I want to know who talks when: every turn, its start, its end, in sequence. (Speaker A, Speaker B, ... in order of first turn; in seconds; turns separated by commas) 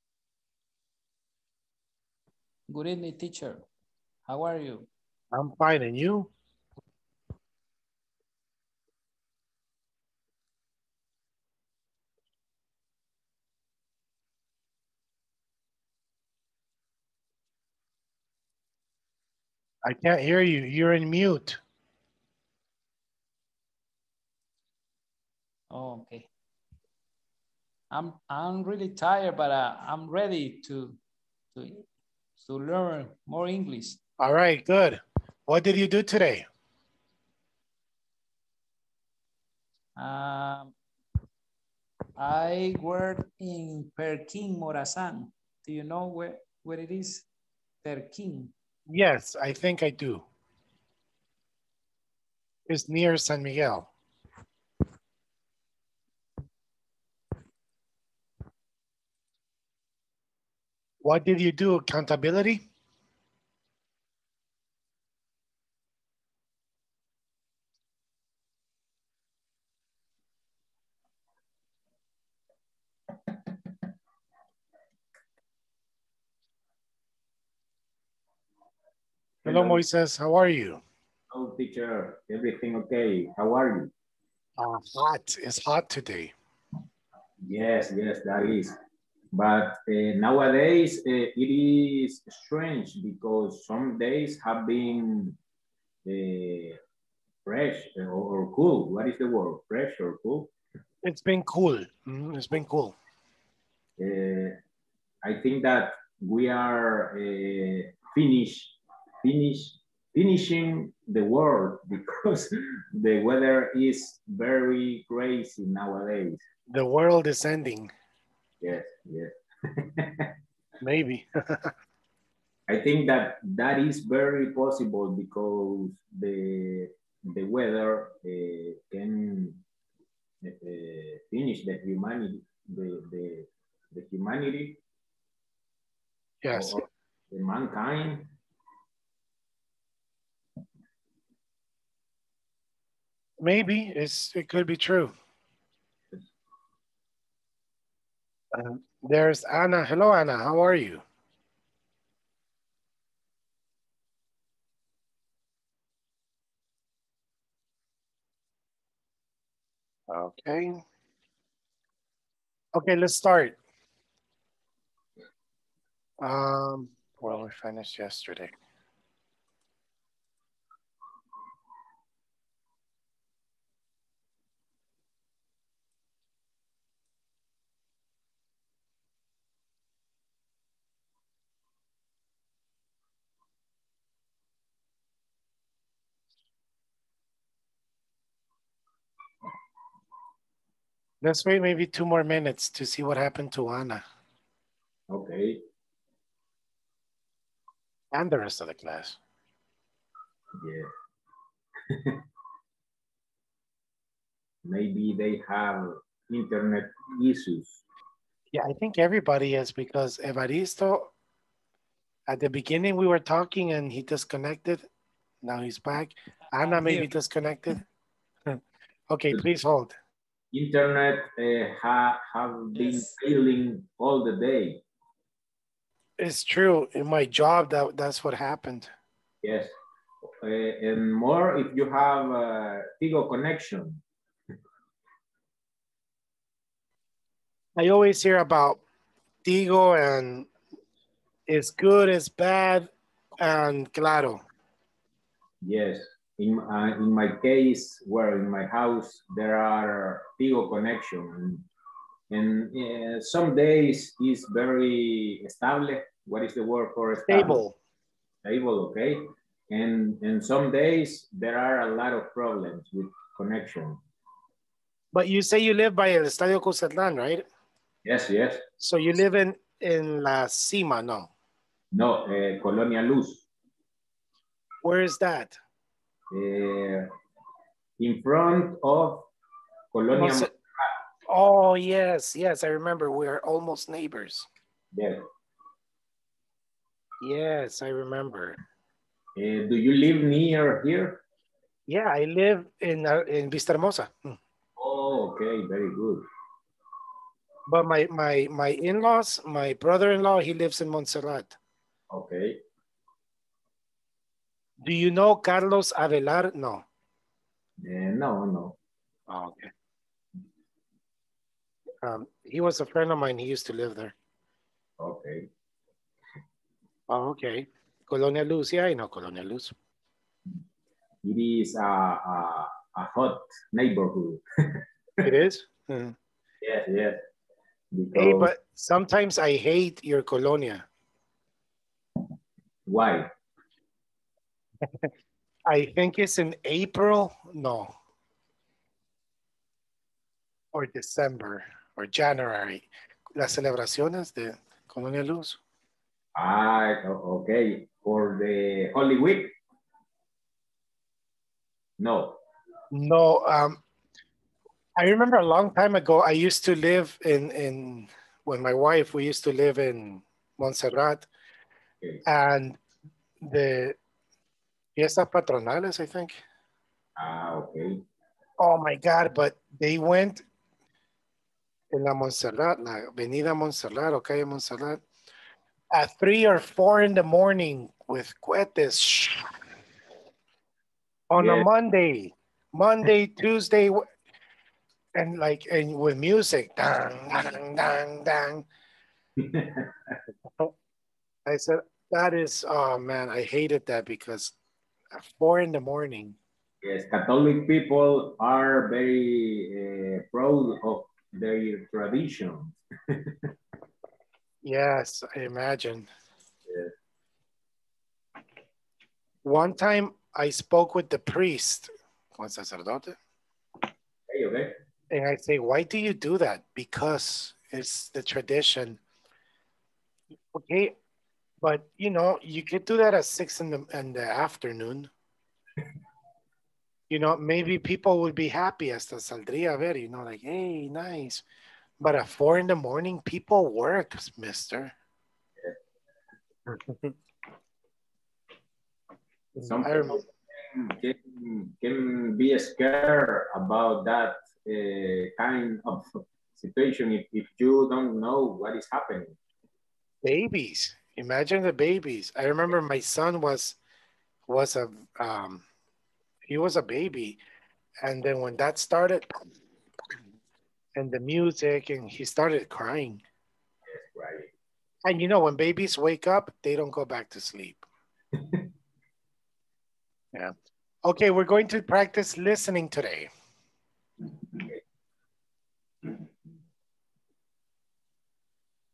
Speaker A: 2.7-3.6, Speaker A: 4.2-4.9, Speaker B: 5.3-6.3, Speaker B: 19.8-21.6, Speaker A: 25.7-26.3, Speaker A: 27.9-31.0, Speaker A: 31.5-31.9, Speaker A: 32.4-34.0, Speaker B: 34.2-36.5, Speaker A: 40.0-40.7, Speaker A: 42.2-47.3, Speaker A: 47.8-48.5, Speaker B: 48.9-50.2, Speaker B: 52.7-53.9, Speaker B: 61.0-62.6, Speaker C: 79.4-79.8, Speaker B: 79.5-80.8, Speaker C: 81.3-83.9, Speaker B: 84.6-86.3, Speaker C: 87.4-88.8, Speaker C: 89.3-95.4, Speaker C: 96.0-96.8, Speaker C: 97.5-100.5, Speaker B: 101.0-102.9, Speaker C: 104.0-104.6, Speaker C: 105.2-116.4, Speaker B: 116.7-117.9, Speaker C: 118.6-120.3, Speaker B: 120.8-121.7, Speaker C: 122.7-129.6, Speaker C: 130.4-134.8, Speaker B: 136.4-136.8, Speaker C: 136.5-138.3, Speaker B: 143.4-145.1, Speaker B: 148.5-151.0, Speaker B: 160.1-160.8, Speaker B: 162.7-163.6, Speaker B: 166.2-168.5, Speaker B: 191.2-194.0, Speaker C: 195.1-195.6, Speaker B: 198.1-199.2, Speaker C: 200.6-200.9, Speaker C: 201.9-202.2, Speaker C: 204.6-207.8, Speaker B: 208.5-211.1, Speaker B: 212.3-214.8, Speaker B: 215.4-217.8, Speaker A: 216.6-217.1, Speaker B: 218.5-219.9, Speaker C: 220.5-224.8, Speaker A: 222.7-223.1, Speaker B: 226.2-228.9, Speaker C: 229.4-229.7, Speaker C: 230.4-234.0, Speaker B: 237.8-238.8, Speaker B: 239.4-240.5, Speaker B: 241.5-244.4, Speaker C: 245.6-251.7, Speaker C: 252.3-257.6, Speaker B: 257.2-257.8, Speaker C: 258.4-264.0, Speaker B: 265.1-267.4, Speaker C: 268.0-268.6, Speaker B: 268.8-271.3, Speaker C: 271.9-273.4, Speaker B: 274.8-275.6, Speaker C: 276.3-277.1, Speaker C: 278.0-279.3, Speaker C: 279.9-280.9, Speaker B: 280.1-280.5, Speaker B: 281.3-284.5, Speaker C: 284.9-285.2, Speaker B: 287.2-288.6, Speaker C: 289.4-291.2, Speaker B: 291.9-294.4, Speaker C: 294.8-296.2, Speaker B: 297.7-301.6, Speaker C: 302.1-302.6, Speaker B: 304.8-306.8, Speaker C: 307.8-308.8, Speaker B: 309.3-309.7, Speaker B: 312.0-314.1, Speaker C: 315.0-315.5, Speaker B: 317.1-319.7, Speaker C: 321.2-324.8, Speaker B: 325.2-326.1, Speaker C: 326.6-327.2, Speaker C: 327.9-328.5, Speaker B: 328.1-330.9, Speaker C: 332.9-333.3, Speaker B: 335.6-337.9, Speaker B: 340.7-345.6, Speaker C: 346.4-349.5, Speaker C: 352.0-352.4, Speaker B: 352.9-353.8, Speaker B: 355.0-361.3, Speaker B: 362.2-362.8, Speaker B: 363.4-364.0, Speaker B: 364.9-366.4, Speaker C: 367.2-368.0, Speaker B: 368.6-370.4, Speaker B: 371.9-375.0, Speaker B: 375.9-379.5, Speaker B: 381.3-384.1, Speaker C: 381.4-381.6, Speaker B: 385.1-388.6, Speaker C: 389.4-390.2, Speaker B: 391.4-394.5, Speaker B: 395.1-396.4, Speaker C: 396.8-403.3, Speaker B: 404.6-406.1, Speaker C: 406.7-406.9, Speaker B: 409.4-413.2, Speaker C: 414.3-414.7, Speaker B: 415.1-419.0, Speaker B: 420.5-420.9, Speaker B: 421.6-425.1, Speaker B: 427.1-431.4, Speaker B: 432.0-434.9, Speaker B: 436.7-437.1, Speaker B: 439.5-440.2, Speaker C: 439.6-449.3, Speaker B: 450.2-453.8, Speaker B: 454.5-455.6, Speaker B: 456.4-457.4, Speaker B: 458.0-459.4, Speaker B: 460.9-463.2, Speaker C: 463.9-464.5, Speaker B: 465.0-467.9, Speaker C: 468.4-468.6, Speaker B: 471.0-473.3